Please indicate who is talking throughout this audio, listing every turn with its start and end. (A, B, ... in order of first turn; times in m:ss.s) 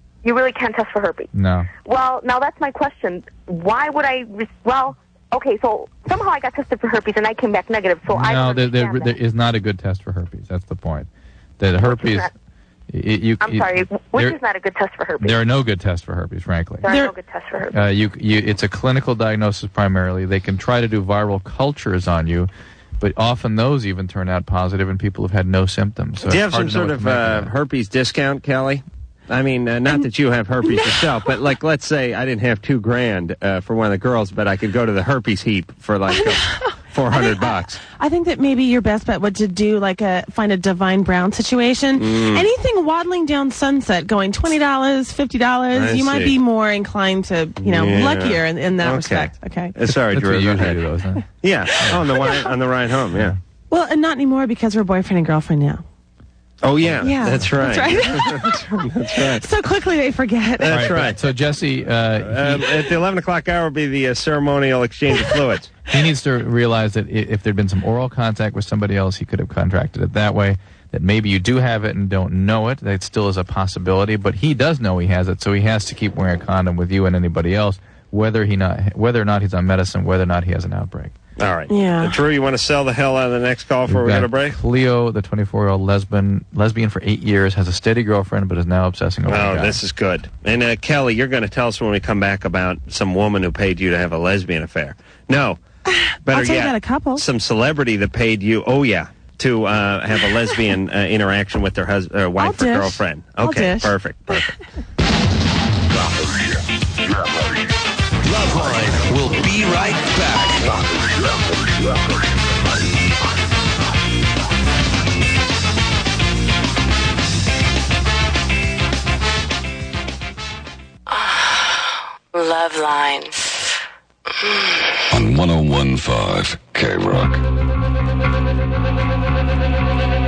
0:00.2-0:09.2 A
0:01.3-0:01.7 B
0:08.1-0:12.3 B
0:11.8-0:12.3 A
0:12.9-0:14.4 B
0:13.4-0:15.4 A
0:15.2-0:16.9 B
0:16.8-0:17.8 A
0:16.8-0:17.1 C
0:17.7-0:27.5 B
0:26.2-0:37.8 D
0:30.6-0:31.0 C
0:36.1-0:49.7 C
0:42.0-0:42.4 D
0:45.7-0:46.4 D
0:47.6-0:50.8 D
0:49.8-0:51.2 B
0:51.4-0:53.3 D
0:52.1-0:52.5 C
0:53.7-0:55.8 C
0:56.6-0:59.5 D
0:56.8-0:57.6 B
0:57.0-0:58.6 C
0:59.2-1:00.8 C
1:00.6-1:01.2 D
1:00.6-1:02.9 B
1:02.2-1:05.7 D
1:05.9-1:21.1 B
1:21.4-1:24.6 D
1:21.7-1:22.2 C
1:23.9-1:29.8 B
1:29.3-1:35.6 D
1:35.9-1:37.2 C
1:36.2-1:44.6 D
1:42.4-1:44.4 C
1:48.2-1:51.3 E
2:01.1-2:03.6 F
2:04.4-2:05.0 F
2:05.1-2:07.4 G